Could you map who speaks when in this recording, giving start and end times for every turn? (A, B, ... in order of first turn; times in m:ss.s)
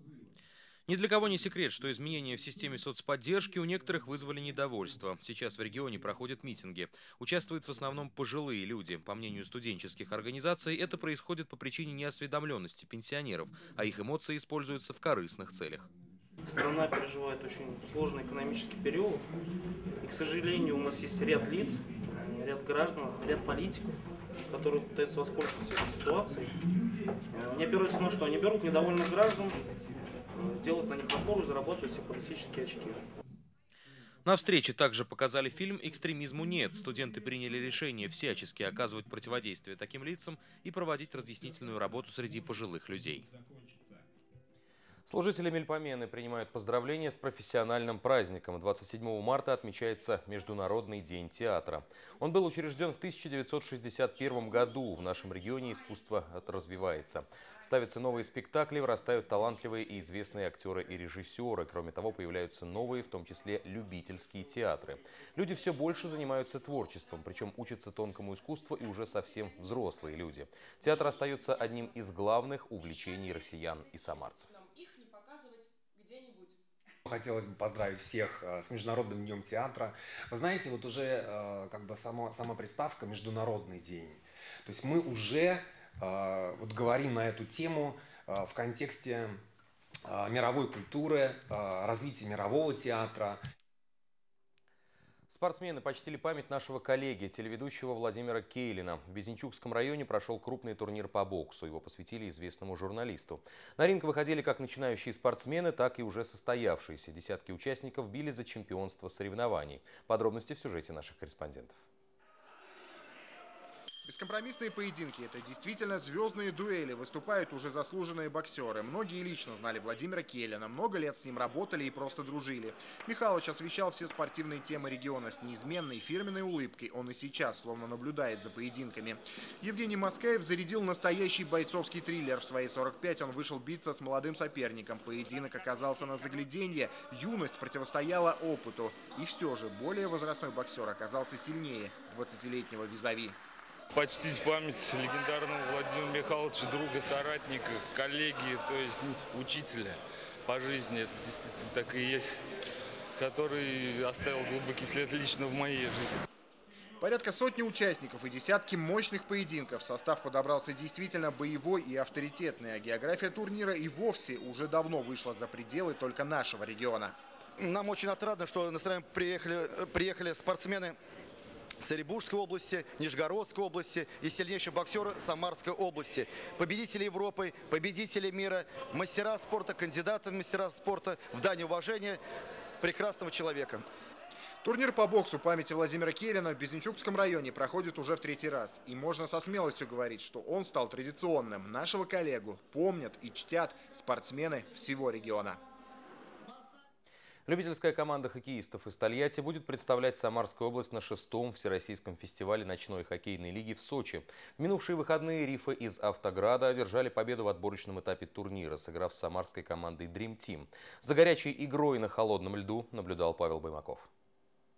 0:00.9-0:15.9 A
0:16.5-0:19.2 B
0:20.0-0:24.0 B
0:24.5-0:26.5 B
0:27.3-0:29.6 B
0:30.3-0:33.0 B
0:34.3-0:43.3 A
0:45.1-1:14.5 A
1:17.1-1:29.4 C
1:30.1-1:33.4 C
1:35.3-1:51.8 A
1:54.0-2:23.4 D
2:23.9-2:32.3 E
2:33.2-2:36.2 E
2:37.0-2:47.2 D
2:47.6-2:51.0 F
2:51.8-3:02.2 F
3:02.8-3:03.8 F
3:04.6-3:15.6 D
3:17.5-3:34.1 A